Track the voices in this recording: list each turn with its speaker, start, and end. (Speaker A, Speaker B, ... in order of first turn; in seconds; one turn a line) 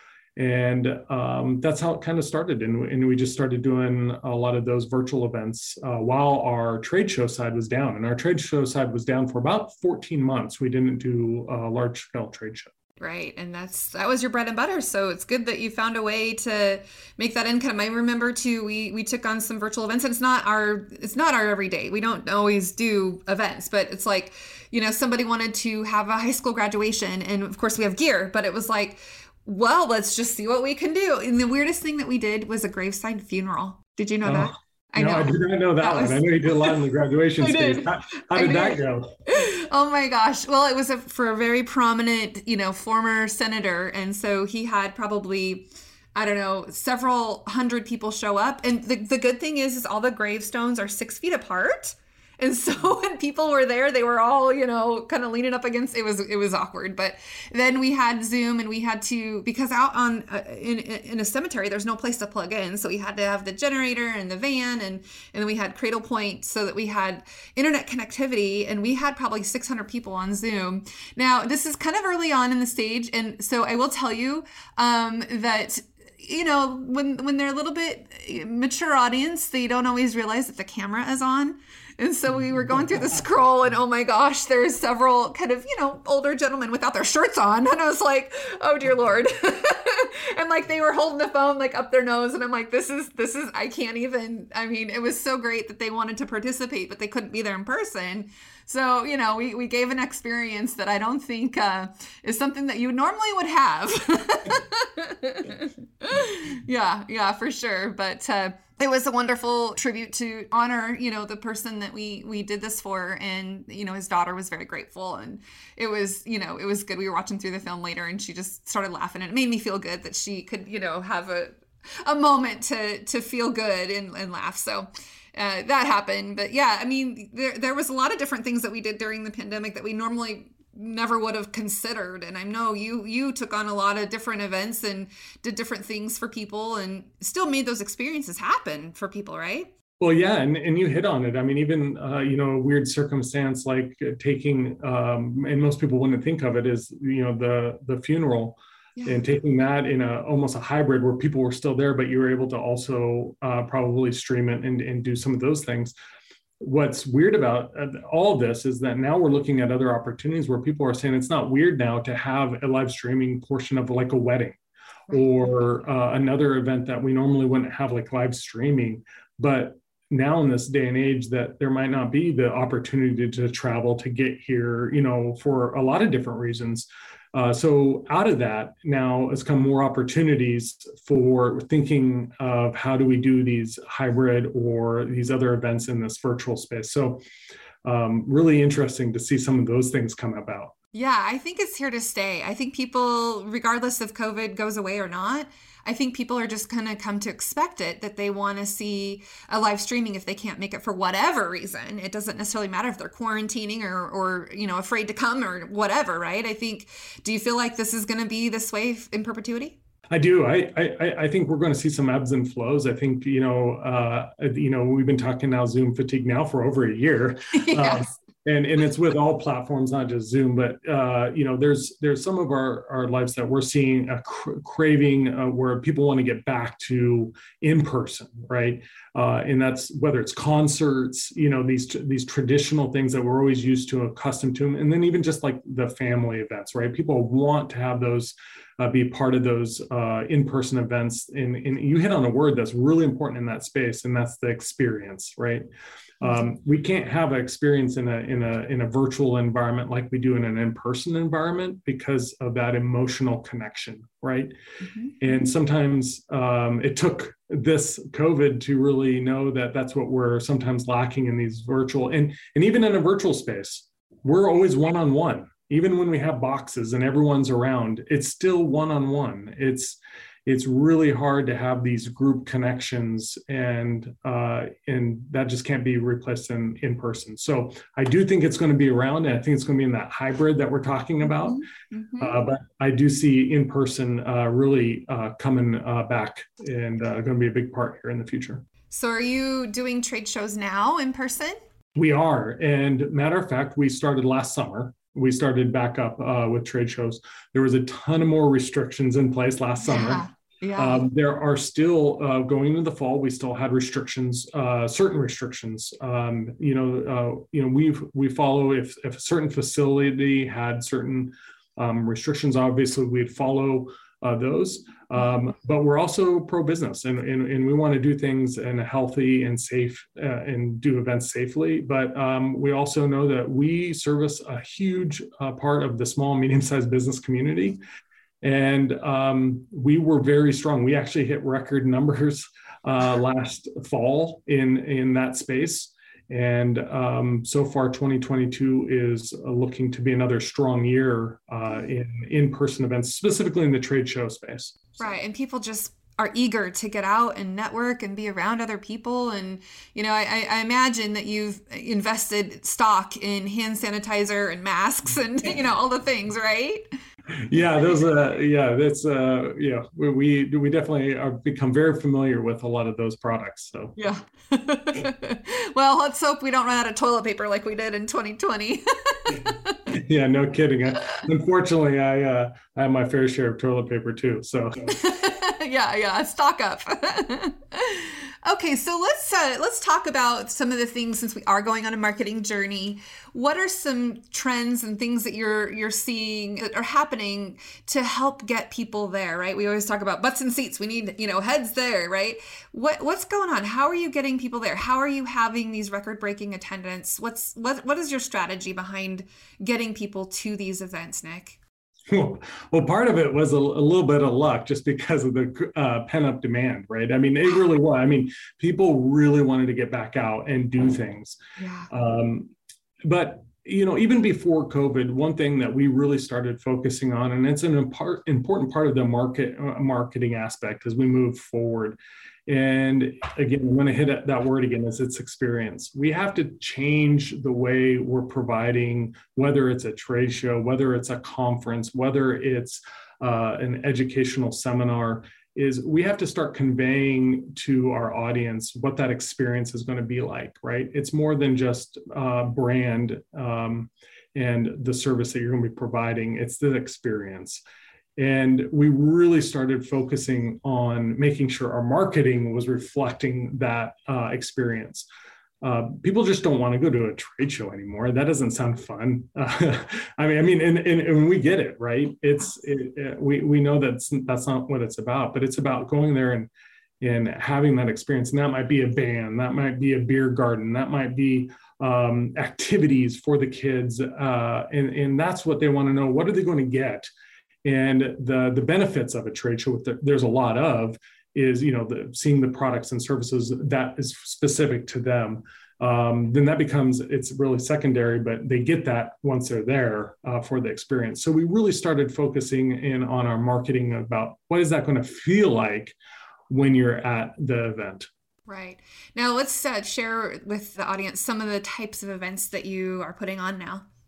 Speaker A: 0.3-12.7
Speaker B: 13.0-36.8
Speaker A: 34.2-39.1
Speaker B: 37.4-139.7
Speaker A: 140.0-155.9
Speaker A: 156.6-164.6
Speaker A: 165.1-187.2
Speaker A: 187.8-190.7
Speaker B: 190.9-209.8
Speaker A: 210.1-245.6
Speaker B: 217.5-218.1
Speaker A: 246.2-254.5
Speaker B: 254.8-255.2
Speaker A: 255.2-281.6
Speaker B: 281.4-282.3
Speaker A: 282.2-288.6
Speaker B: 288.9-291.6
Speaker A: 291.9-300.2
Speaker B: 299.8-301.0
Speaker A: 300.8-327.8
Speaker A: 328.4-345.0
Speaker B: 345.0-356.8
Speaker A: 357.4-364.0
Speaker B: 364.0-369.8
Speaker A: 369.9-375.0
Speaker B: 374.9-401.6
Speaker A: 402.1-411.4
Speaker B: 411.6-411.9
Speaker A: 411.9-412.5
Speaker A: 413.0-447.6
Speaker A: 448.2-455.1
Speaker A: 455.6-466.5
Speaker A: 467.0-477.1
Speaker A: 477.6-496.0
Speaker A: 496.5-498.1
Speaker B: 498.5-503.8